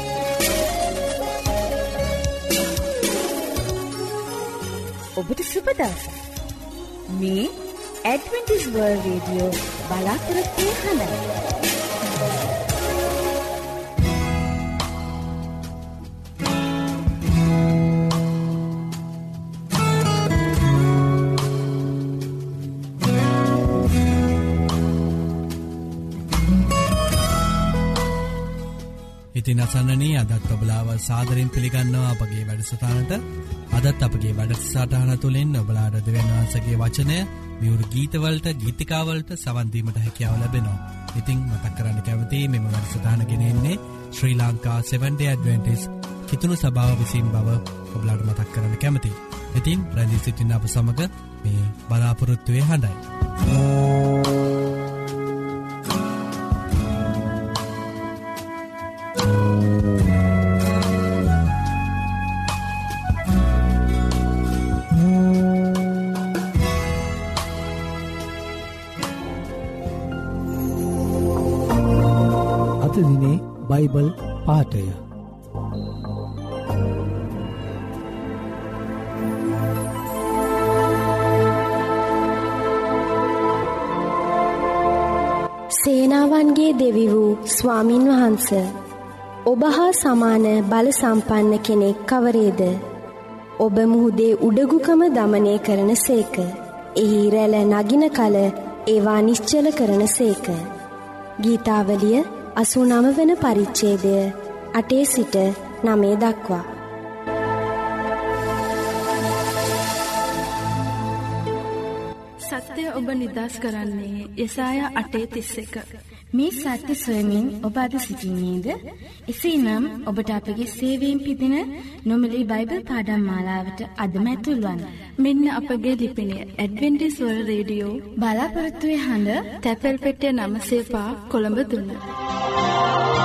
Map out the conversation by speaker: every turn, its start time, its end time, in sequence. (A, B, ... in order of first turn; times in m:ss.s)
0:05.2-0:06.2 A
0:07.1-0:07.5 A
0:08.0-0:11.2 A
0:29.4-0:33.2 B
0:33.7-0:53.0 B
1:12.8-1:15.0 C
1:25.8-1:28.7 D
1:29.5-1:32.8 D
1:33.6-1:40.7 D
1:41.4-1:46.7 D
1:52.5-1:55.8 E
1:56.3-1:58.8 F
1:59.3-2:04.9 F
2:05.2-2:08.0 E
2:08.2-2:09.4 F
2:09.6-2:12.0 E